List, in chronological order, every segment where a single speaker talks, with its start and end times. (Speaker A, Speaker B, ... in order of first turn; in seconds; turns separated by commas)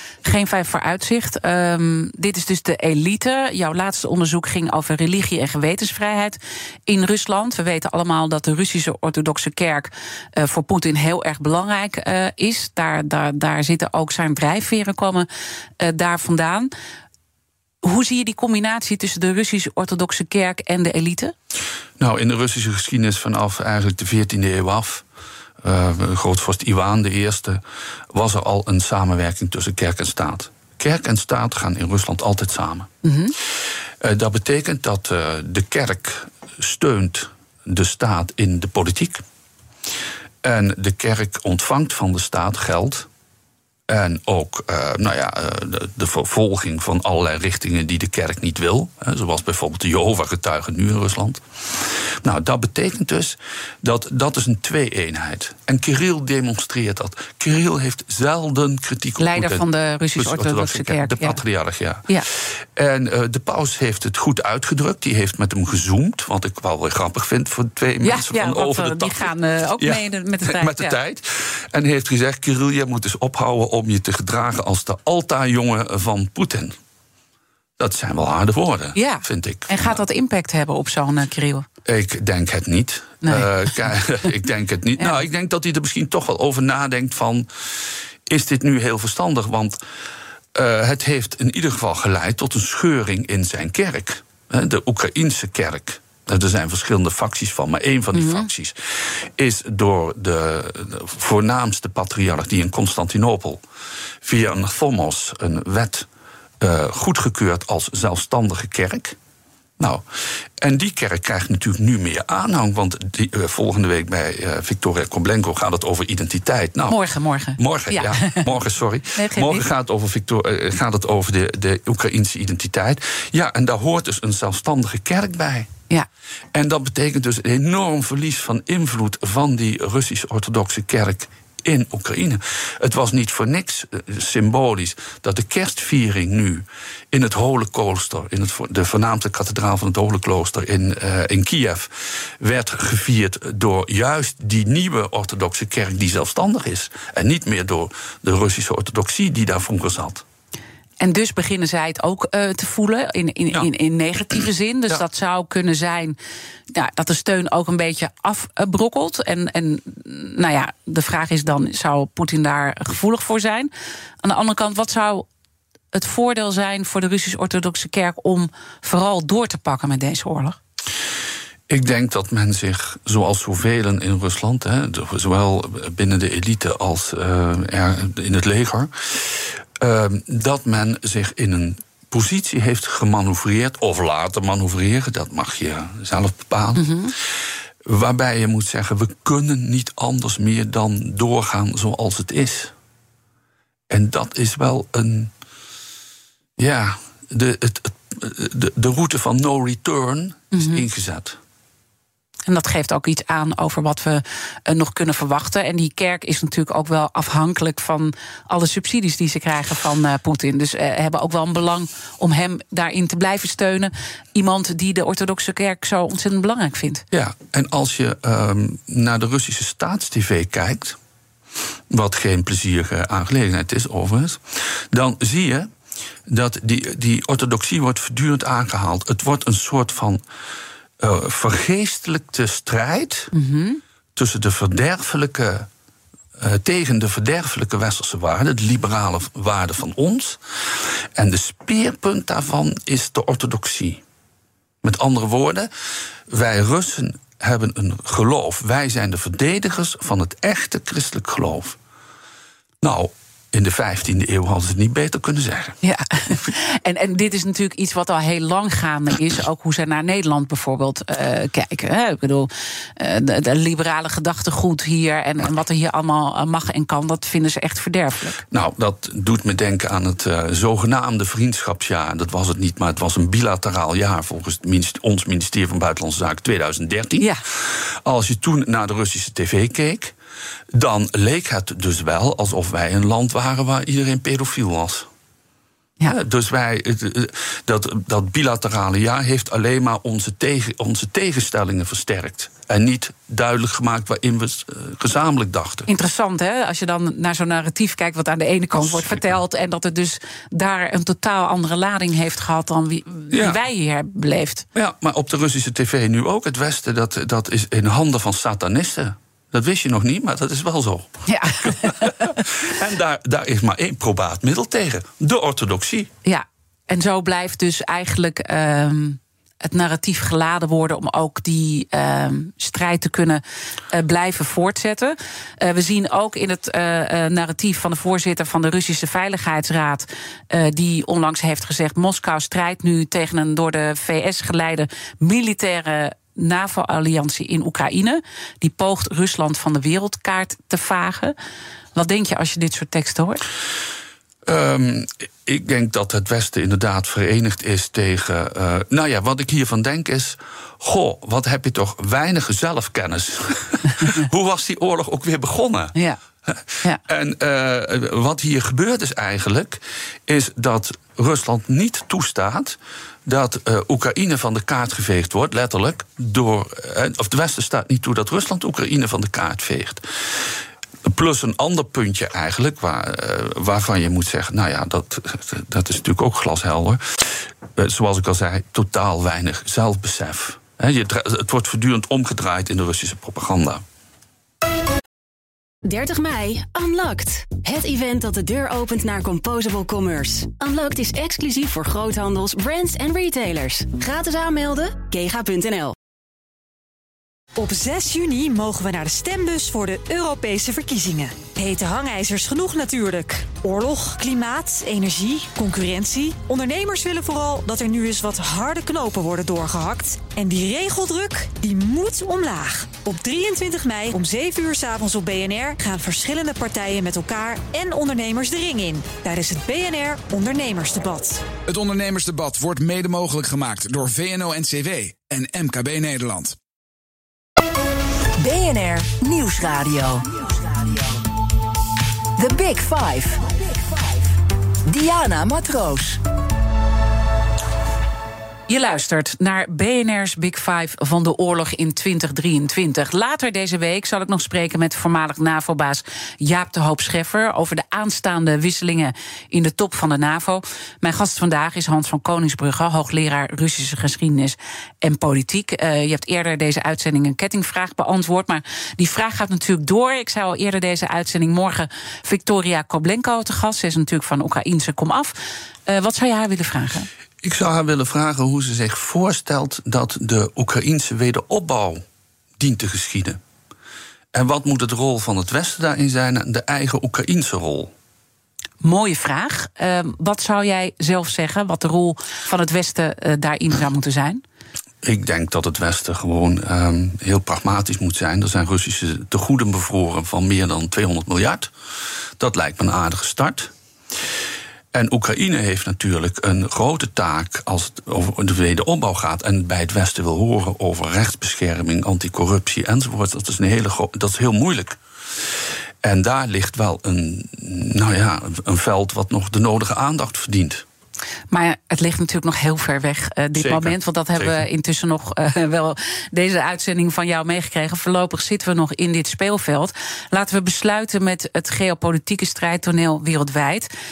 Speaker A: 0.2-15.3, Speaker A: 15.8-16.7, Speaker A: 17.8-21.3, Speaker B: 22.0-25.0, Speaker B: 25.6-32.9, Speaker A: 33.0-33.3, Speaker B: 34.0-39.2, Speaker B: 40.4-43.1, Speaker B: 43.9-76.8, Speaker A: 59.2-61.4, Speaker A: 68.0-71.0, Speaker B: 77.8-80.0, Speaker A: 79.0-81.7, Speaker B: 81.8-89.8, Speaker A: 83.2-83.5, Speaker B: 90.5-103.6, Speaker A: 98.1-98.5, Speaker B: 104.2-106.1, Speaker B: 106.6-109.2, Speaker B: 109.8-110.0, Speaker B: 110.6-117.0, Speaker A: 116.9-118.5, Speaker B: 117.6-125.7, Speaker A: 119.1-119.6, Speaker B: 126.5-150.2, Speaker A: 151.0-156.2, Speaker A: 156.7-163.7, Speaker A: 164.2-165.2, Speaker A: 165.9-170.6, Speaker B: 171.7-187.2, Speaker A: 186.8-187.1, Speaker B: 187.8-192.7, Speaker B: 193.9-195.3, Speaker B: 196.6-201.4, Speaker A: 200.5-200.8, Speaker A: 202.5-217.0, Speaker B: 217.1-221.0, Speaker B: 221.9-225.7, Speaker B: 226.3-230.2, Speaker B: 231.0-233.3, Speaker A: 233.3-233.8, Speaker B: 234.2-235.7, Speaker B: 236.4-244.0, Speaker B: 244.8-245.7, Speaker B: 246.3-251.8, Speaker B: 252.8-255.8, Speaker A: 255.8-268.4, Speaker B: 268.5-280.1, Speaker B: 280.7-285.1, Speaker B: 286.1-295.9, Speaker A: 295.9-304.6, Speaker B: 298.8-299.3, Speaker B: 303.3-303.6, Speaker B: 304.7-316.1, Speaker A: 311.2-312.4, Speaker A: 316.2-341.4, Speaker A: 341.9-343.4, Speaker B: 344.4-355.9, Speaker B: 356.5-383.8, Speaker C: 385.8-395.9, Speaker D: 397.6-421.4, Speaker E: 421.7-426.6, Speaker F: 428.4-431.2, Speaker F: 432.4-434.3, Speaker F: 434.9-436.2, Speaker A: 438.7-465.3, Speaker A: 465.9-467.1, Speaker B: 467.4-472.0, Speaker B: 472.6-473.4, Speaker B: 474.3-477.9, Speaker A: 478.8-484.4, Speaker B: 485.0-491.7, Speaker B: 492.4-493.7, Speaker B: 494.9-505.0, Speaker B: 506.0-510.8, Speaker A: 511.5-523.9, Speaker B: 513.6-514.6